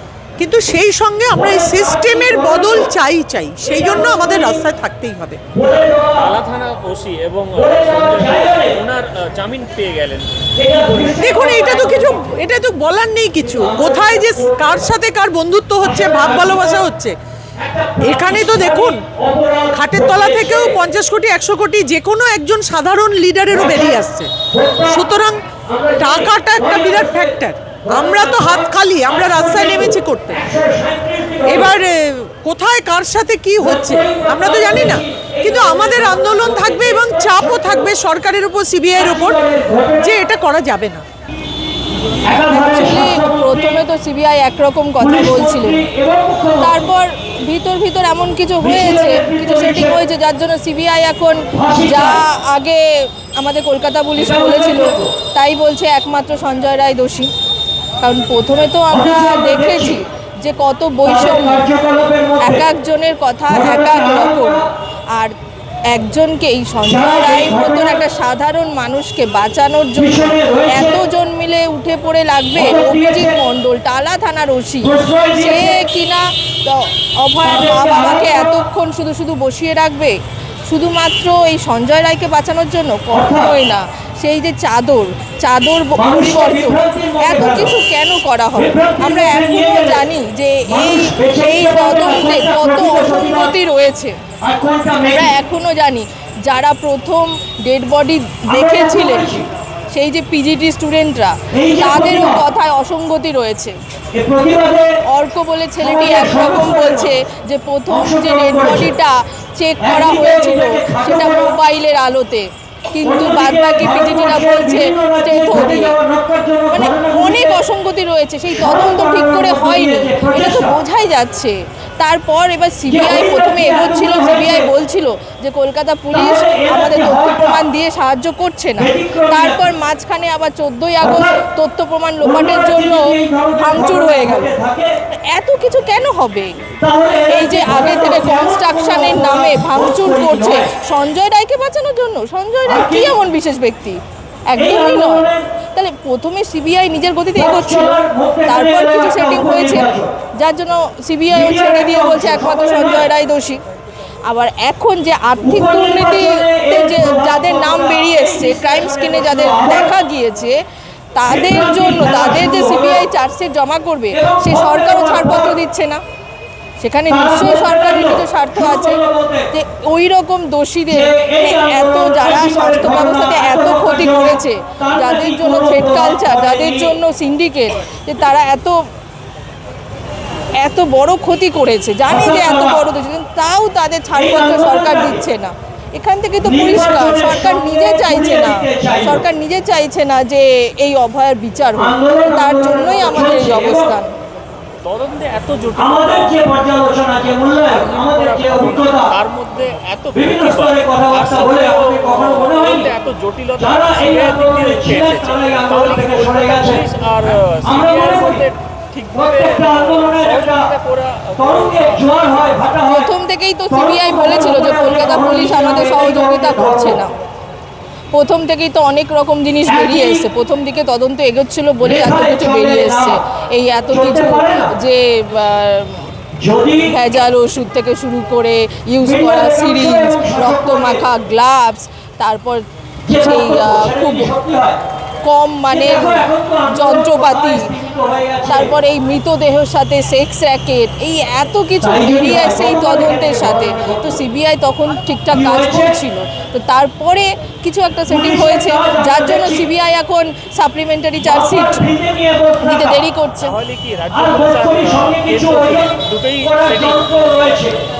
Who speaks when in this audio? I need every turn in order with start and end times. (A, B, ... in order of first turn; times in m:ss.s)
0:00.4-0:05.4 A
0:01.3-0:02.9 B
0:03.7-0:04.5 B
0:05.5-0:06.3 B
0:06.1-0:10.3 C
0:07.6-0:08.8 B
0:10.6-0:12.2 B
0:11.1-0:17.1 A
0:13.6-0:14.6 B
0:15.8-0:16.9 B
0:17.6-0:20.8 B
0:18.0-0:19.0 A
0:19.7-0:25.4 A
0:23.6-0:23.9 B
0:24.5-0:25.0 B
0:25.6-0:31.7 B
0:25.9-0:30.4 A
0:31.4-0:41.0 A
0:33.6-0:37.9 B
0:39.0-0:40.1 B
0:42.2-0:43.8 B
0:42.4-0:45.8 D
0:45.0-0:46.8 B
0:46.6-0:57.3 D
0:48.6-0:49.9 B
0:51.5-0:52.2 B
0:54.2-0:55.1 B
0:58.0-1:01.6 D
0:58.9-1:00.0 B
1:01.0-1:02.6 B
1:02.4-1:05.4 D
1:03.5-1:04.7 B
1:05.9-1:34.2 D
1:06.8-1:08.0 B
1:10.0-1:11.0 B
1:12.6-1:13.4 B
1:14.8-1:15.8 B
1:17.4-1:18.6 B
1:23.1-1:23.5 B
1:26.0-1:27.7 B
1:28.6-1:30.0 B
1:30.7-1:33.5 B
1:34.4-1:35.3 B
1:35.1-1:39.3 D
1:38.5-1:39.5 B
1:39.9-1:43.8 D
1:41.5-1:42.4 B
1:44.1-1:45.0 B
1:45.0-1:56.0 D
1:45.8-1:47.1 B
1:47.9-1:48.9 B
1:49.8-1:51.5 B
1:53.0-1:57.6 B
1:56.7-2:14.5 D
1:58.5-2:00.7 B
2:02.9-2:04.7 B
2:06.1-2:07.6 B
2:08.8-2:09.6 B
2:11.0-2:11.4 B
2:12.2-2:14.9 B
2:15.2-2:16.6 D
2:16.8-2:20.7 B
2:17.3-2:33.6 D
2:22.6-2:23.1 B
2:24.6-2:25.4 B
2:27.4-2:30.1 B
2:31.3-2:33.1 B
2:34.2-2:40.6 D
2:35.4-2:39.9 B
2:41.1-2:46.0 D
2:41.2-2:43.1 B
2:44.1-2:45.6 B
2:46.8-2:58.9 D
2:47.1-2:49.5 B
2:50.9-2:56.9 B
3:00.6-3:14.2 D
3:02.1-3:02.8 B
3:04.1-3:05.2 B
3:06.4-3:09.2 B
3:11.8-3:13.9 B
3:14.8-3:16.4 C
3:15.8-3:19.1 B
3:17.7-3:32.0 C
3:20.1-3:22.9 B
3:23.6-3:26.8 B
3:27.6-3:28.4 B
3:29.1-3:30.7 B
3:31.4-3:33.1 B
3:32.9-3:37.2 D
3:33.7-3:37.0 B
3:38.1-3:46.1 D
3:39.7-3:40.2 B
3:41.8-3:43.2 B
3:43.9-3:44.7 B
3:46.4-3:46.9 B
3:46.8-3:54.3 D
3:49.0-3:51.0 B
3:53.1-3:54.8 B
3:55.2-3:57.7 D
3:55.7-3:58.7 B
3:58.4-4:11.8 D
4:01.8-4:04.2 B
4:05.3-4:06.0 B
4:08.1-4:09.7 B
4:11.2-4:13.0 B
4:12.6-4:13.6 D
4:13.4-4:17.0 C
4:14.1-4:17.8 B